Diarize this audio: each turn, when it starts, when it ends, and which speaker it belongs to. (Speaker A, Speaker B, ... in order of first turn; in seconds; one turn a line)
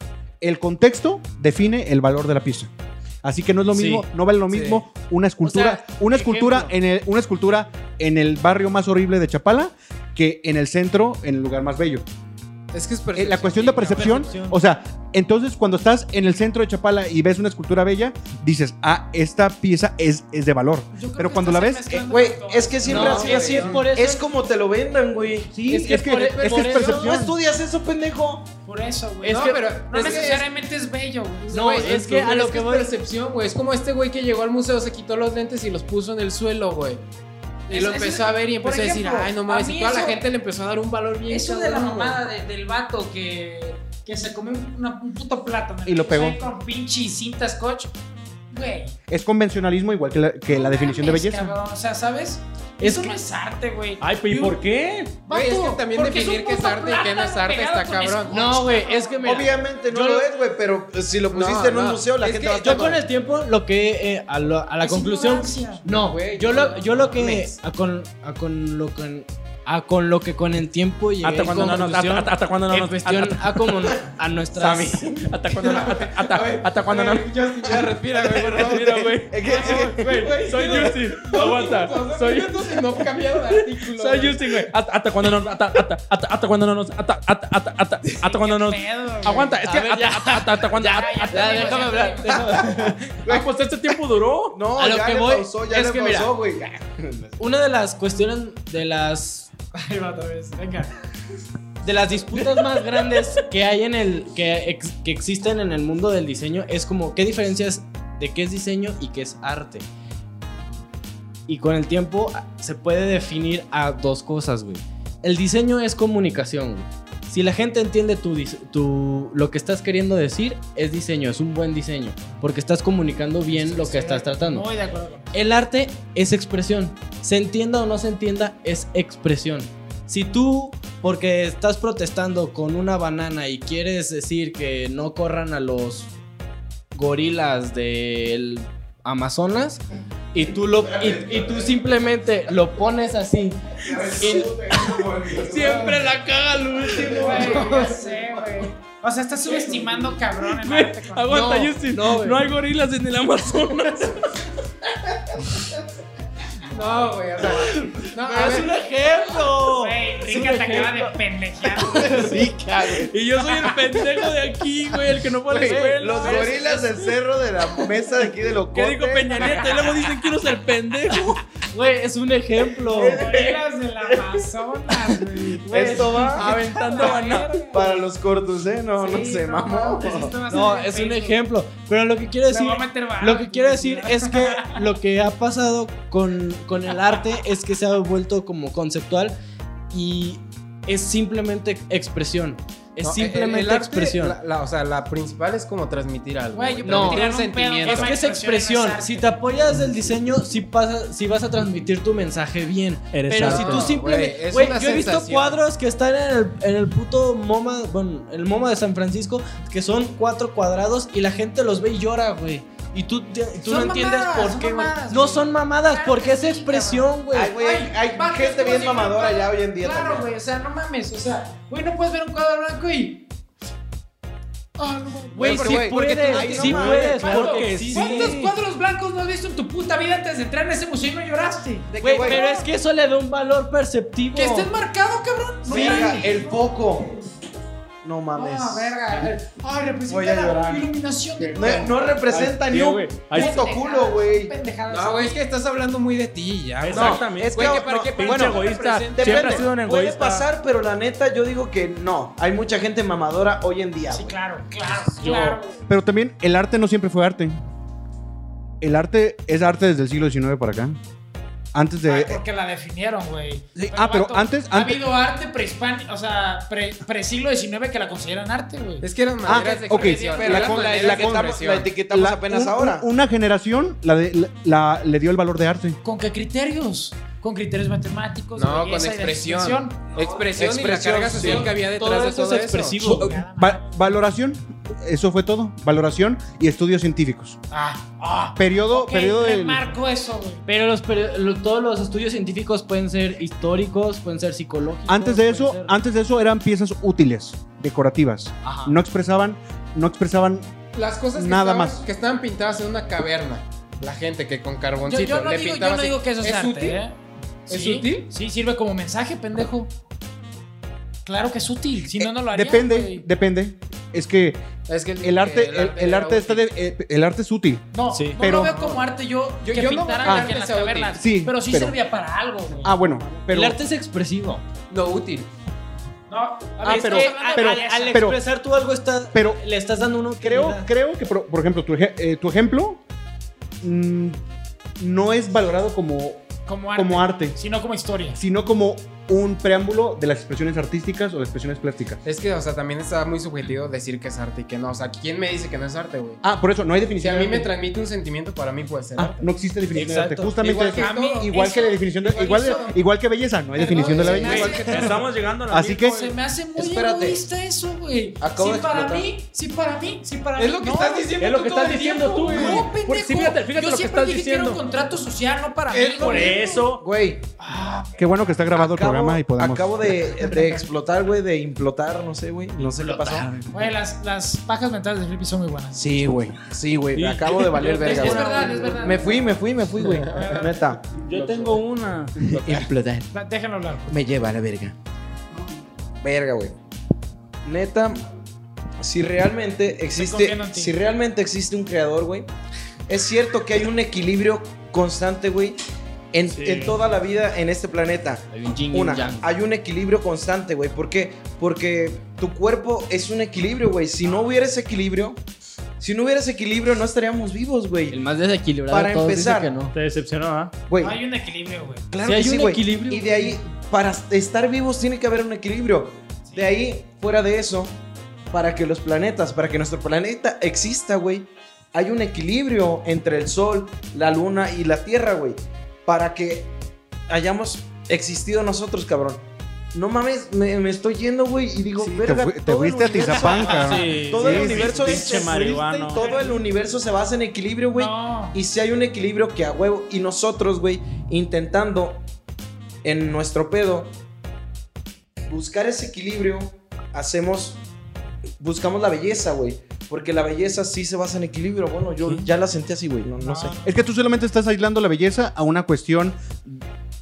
Speaker A: 0.4-2.7
Speaker A: 3.2-12.0
Speaker B: 3.7-4.0
Speaker C: 4.5-4.8
Speaker B: 5.4-6.7
Speaker C: 12.7-14.5
Speaker A: 13.1-22.0
Speaker B: 14.0-14.4
Speaker D: 20.9-23.8
Speaker E: 22.0-25.6
Speaker B: 22.9-24.3
Speaker C: 22.9-23.8
Speaker B: 25.5-27.3
Speaker A: 25.6-27.4
Speaker C: 26.1-26.8
Speaker E: 26.5-28.5
Speaker D: 28.6-31.7
Speaker B: 29.2-30.1
Speaker C: 29.3-30.5
Speaker C: 31.4-37.0
Speaker B: 31.5-33.0
Speaker C: 37.7-42.2
Speaker D: 37.7-40.2
Speaker D: 41.3-47.9
Speaker A: 45.8-46.4
Speaker D: 48.5-48.9
Speaker A: 49.1-51.5
Speaker D: 50.5-54.1
Speaker B: 52.8-53.2
Speaker F: 54.0-55.2
Speaker D: 55.2-59.4
Speaker C: 55.3-58.4
Speaker B: 58.3-60.3
Speaker E: 59.2-63.0
Speaker C: 61.3-63.0
Speaker B: 62.6-75.2
Speaker D: 64.8-65.8
Speaker C: 65.8-67.5
Speaker F: 71.2-73.7
Speaker E: 74.5-75.4
Speaker F: 75.2-77.3
Speaker C: 75.6-84.6
Speaker E: 77.7-80.5
Speaker F: 78.4-82.8
Speaker D: 79.5-79.8
Speaker F: 83.5-92.1
Speaker D: 88.2-89.7
Speaker B: 89.6-93.2
Speaker D: 90.8-92.6
Speaker E: 92.6-93.5
Speaker F: 93.2-94.6
Speaker E: 94.5-97.4
Speaker B: 94.7-96.3
Speaker B: 97.4-99.5
Speaker D: 99.7-100.9
Speaker B: 101.8-109.8
Speaker B: 111.5-124.7
Speaker D: 123.5-125.4
Speaker B: 125.3-136.1
Speaker B: 136.9-139.8
Speaker B: 140.3-145.0
Speaker E: 140.8-141.8
Speaker E: 143.8-146.2
Speaker F: 145.4-147.6
Speaker B: 146.7-147.9
Speaker E: 146.9-148.4
Speaker D: 147.1-151.8
Speaker C: 149.6-149.9
Speaker F: 150.4-154.4
Speaker B: 151.3-152.4
Speaker C: 156.7-158.7
Speaker B: 157.4-160.0
Speaker D: 158.2-158.7
Speaker D: 159.7-162.5
Speaker F: 160.2-161.1
Speaker B: 161.8-162.5
Speaker E: 162.0-163.1
Speaker F: 162.9-167.0
Speaker E: 165.4-170.0
Speaker B: 165.7-166.3
Speaker D: 166.1-166.6
Speaker F: 168.7-171.4
Speaker B: 171.1-173.3
Speaker E: 172.8-174.4
Speaker D: 173.0-177.9
Speaker E: 175.7-176.6
Speaker B: 175.7-176.6
Speaker F: 176.2-177.7
Speaker E: 177.7-180.3
Speaker D: 178.9-181.4
Speaker B: 180.5-189.3
Speaker D: 182.5-184.8
Speaker B: 189.9-194.4
Speaker C: 193.0-198.1
Speaker D: 196.5-199.3
Speaker B: 196.8-197.3
Speaker B: 197.8-217.5
Speaker F: 203.1-204.0
Speaker C: 203.4-205.6
Speaker D: 213.6-223.2
Speaker E: 217.3-220.2
Speaker D: 224.8-225.6
Speaker B: 225.3-228.4
Speaker E: 225.4-227.3
Speaker C: 225.4-226.8
Speaker D: 226.3-232.7
Speaker F: 226.9-228.5
Speaker E: 231.9-232.5
Speaker B: 232.0-234.7
Speaker D: 234.3-236.6
Speaker E: 235.7-237.2
Speaker E: 238.0-238.9
Speaker D: 238.3-241.9
Speaker E: 240.1-240.9
Speaker F: 241.4-243.6
Speaker E: 241.5-244.5
Speaker D: 243.3-245.4
Speaker C: 244.9-249.7
Speaker F: 246.8-250.5
Speaker E: 246.9-254.4
Speaker D: 254.1-255.8
Speaker F: 255.2-255.6
Speaker A: 255.8-257.6
Speaker A: 258.8-261.0
Speaker A: 261.7-262.4
Speaker D: 262.1-269.1
Speaker A: 263.8-265.0
Speaker C: 269.0-271.9
Speaker A: 269.4-276.0
Speaker D: 269.9-270.7
Speaker E: 270.4-273.1
Speaker D: 276.0-280.1
Speaker C: 278.5-283.0
Speaker E: 280.5-281.7
Speaker B: 281.4-283.4
Speaker D: 283.0-284.1
Speaker A: 283.0-287.6
Speaker D: 287.7-290.6
Speaker A: 288.6-289.9
Speaker B: 290.6-296.0
Speaker A: 295.1-300.7
Speaker B: 298.6-299.0
Speaker C: 300.9-307.0
Speaker A: 301.3-302.0
Speaker D: 305.0-307.1
Speaker C: 307.7-308.3
Speaker D: 307.7-309.9
Speaker D: 311.2-313.2
Speaker A: 312.1-314.7
Speaker C: 314.9-316.7
Speaker A: 315.2-317.9
Speaker D: 317.9-323.0
Speaker F: 318.1-318.4
Speaker A: 318.4-318.8
Speaker C: 318.5-319.0
Speaker C: 319.6-321.2
Speaker A: 320.2-320.5
Speaker A: 321.2-322.0
Speaker A: 322.8-323.8
Speaker B: 323.5-324.6
Speaker C: 324.9-325.5
Speaker D: 326.3-328.3
Speaker A: 326.8-328.4
Speaker B: 326.8-330.9
Speaker A: 329.3-329.6
Speaker A: 330.4-333.0
Speaker A: 333.8-334.4
Speaker A: 335.0-337.6
Speaker D: 336.6-338.4
Speaker A: 338.4-342.2
Speaker C: 342.2-346.4
Speaker A: 346.4-347.7
Speaker C: 347.2-349.4
Speaker A: 349.2-355.0
Speaker B: 349.9-350.7
Speaker C: 350.7-351.6
Speaker D: 350.9-352.9
Speaker C: 352.5-352.8
Speaker D: 353.8-355.2
Speaker E: 353.9-355.1
Speaker C: 353.9-355.1
Speaker F: 354.4-356.3
Speaker A: 355.7-356.3
Speaker D: 356.0-366.9
Speaker E: 356.8-357.4
Speaker E: 358.4-359.3
Speaker C: 360.6-362.6
Speaker F: 361.4-364.8
Speaker E: 362.6-362.8
Speaker E: 365.9-367.5
Speaker F: 366.0-367.0
Speaker D: 367.6-368.5
Speaker A: 368.2-370.0
Speaker E: 368.7-373.5
Speaker D: 370.4-370.9
Speaker B: 372.8-373.7
Speaker D: 373.7-376.1
Speaker E: 375.9-381.8
Speaker F: 377.1-378.4
Speaker D: 377.8-380.8
Speaker F: 381.1-382.4
Speaker E: 382.4-383.3
Speaker D: 383.3-384.2
Speaker E: 384.1-384.9
Speaker E: 386.2-386.8
Speaker E: 387.6-388.2
Speaker E: 389.0-392.5
Speaker D: 390.1-390.9
Speaker E: 393.1-395.8
Speaker E: 396.3-405.4
Speaker F: 396.5-397.0
Speaker B: 398.5-399.5
Speaker E: 406.0-408.2
Speaker B: 408.1-409.9
Speaker E: 408.9-409.8
Speaker F: 409.9-410.7
Speaker E: 410.9-411.2
Speaker D: 411.0-412.1
Speaker E: 412.1-418.0
Speaker B: 412.2-413.6
Speaker E: 418.5-426.7
Speaker E: 427.3-442.2
Speaker A: 432.0-434.9
Speaker D: 433.2-435.3
Speaker F: 433.8-436.3
Speaker D: 436.1-436.6
Speaker D: 437.9-438.6
Speaker E: 443.0-444.1
Speaker E: 445.5-447.8
Speaker E: 448.6-453.8
Speaker D: 453.4-454.1
Speaker A: 453.8-456.8